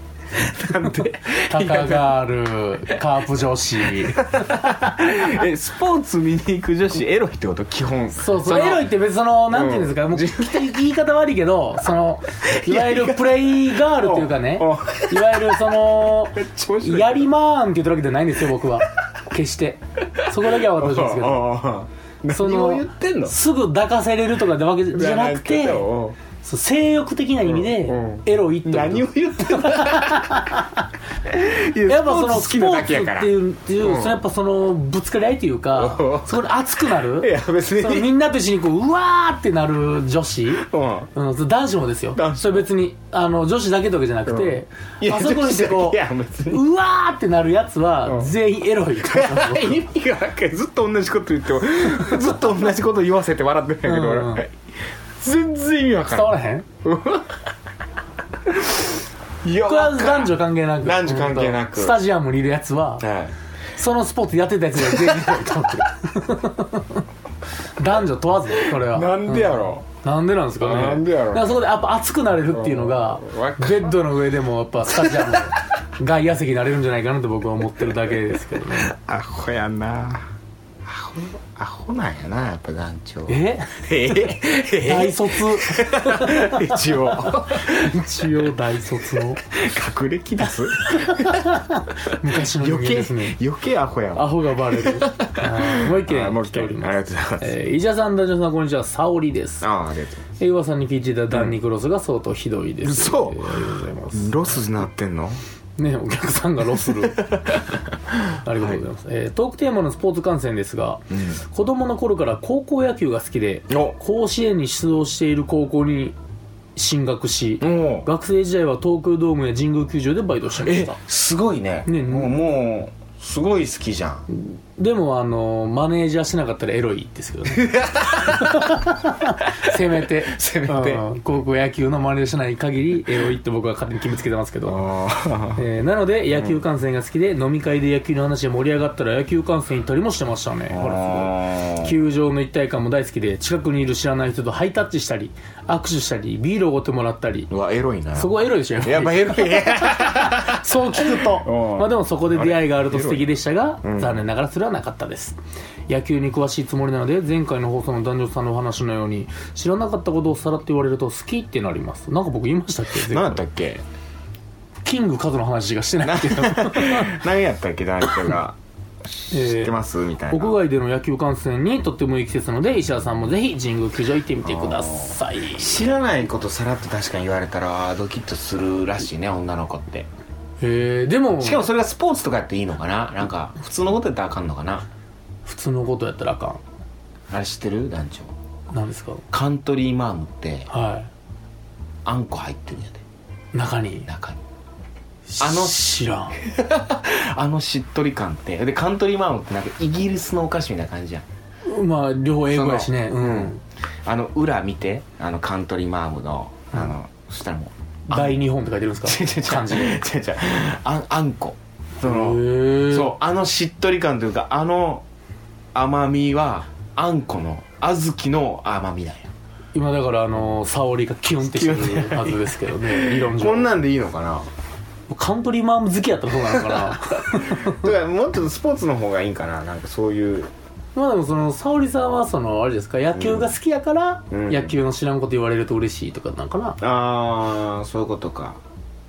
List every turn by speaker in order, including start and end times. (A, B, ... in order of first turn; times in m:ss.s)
0:00.3-0:02.2 A
0:00.8-0:04.7 B
0:03.9-0:08.9 A
0:08.2-0:21.5 B
0:09.5-0:10.8 A
0:12.4-0:17.3 A
0:20.2-0:23.4 A
0:22.3-0:30.9 B
0:24.9-0:26.2 A
0:27.4-0:30.5 A
0:31.2-0:34.2 A
0:31.9-0:46.0 B
0:35.7-0:36.5 A
0:37.1-0:38.1 A
0:40.6-0:41.1 A
0:42.2-0:42.7 A
0:44.3-0:46.6 A
0:46.5-0:49.8 B
0:48.1-0:48.3 A
0:49.0-0:54.6 A
0:53.8-0:54.4 B
0:55.2-0:57.4 A
0:56.0-0:56.7 B
0:58.5-0:58.9 A
0:59.4-1:02.0 A
0:59.6-1:03.0 B
1:03.0-1:03.4 A
1:03.8-1:07.0 B
1:04.8-1:05.6 A
1:07.8-1:18.9 B
1:08.5-1:09.9 A
1:10.6-1:11.6 A
1:12.5-1:14.0 A
1:14.8-1:15.5 A
1:18.7-1:20.3 A
1:20.8-1:28.3 A
1:23.3-1:23.8 B
1:24.8-1:29.4 B
1:29.4-1:31.6 A
1:30.8-1:33.4 B
1:32.1-1:37.5 A
1:34.2-1:39.7 B
1:39.6-1:40.2 A
1:40.4-1:44.6 B
1:41.3-1:41.6 A
1:42.8-1:45.4 A
1:45.8-1:47.6 B
1:47.0-1:48.8 A
1:48.4-1:56.2 B
1:51.1-1:51.4 A
1:53.7-1:54.0 A
1:56.8-2:01.0 B
1:57.6-1:58.1 A
2:00.6-2:04.3 A
2:01.9-2:02.4 B
2:04.3-2:07.7 B
2:07.5-2:08.8 A
2:08.2-2:14.8 B
2:09.7-2:11.0 A
2:14.7-2:15.6 A
2:15.6-2:27.5 B
2:16.3-2:16.6 A
2:20.7-2:22.0 A
2:27.5-2:33.3 A
2:28.2-2:43.4 B
2:33.8-2:34.2 A
2:43.0-2:43.8 A
2:44.8-2:47.2 B
2:46.0-2:50.6 A
2:49.3-2:49.8 B
2:50.3-2:55.9 B
2:54.4-3:00.1 A
3:00.6-3:01.7 B
3:01.4-3:04.9 A
3:05.4-3:06.6 B
3:07.3-3:08.3 A
3:08.7-3:09.2 B
3:09.3-3:10.7 A
3:10.7-3:11.1 B
3:12.0-3:13.0 A
3:13.5-3:14.1 B
3:14.1-3:14.4 A
3:15.3-3:16.4 B
3:15.4-3:21.3 A
3:21.7-3:23.6 B
3:22.5-3:23.5 A
3:24.0-3:28.4 A
3:28.1-3:30.0 B
3:29.0-3:35.0 A
3:32.0-3:33.2 B
3:35.7-3:39.3 A
3:39.7-3:43.7 B
3:41.4-3:44.5 A
3:45.1-3:47.9 B
3:46.5-3:50.5 A
3:51.0-3:56.8 B
3:53.2-3:53.5 A
3:54.3-3:54.8 A
3:56.8-3:58.6 A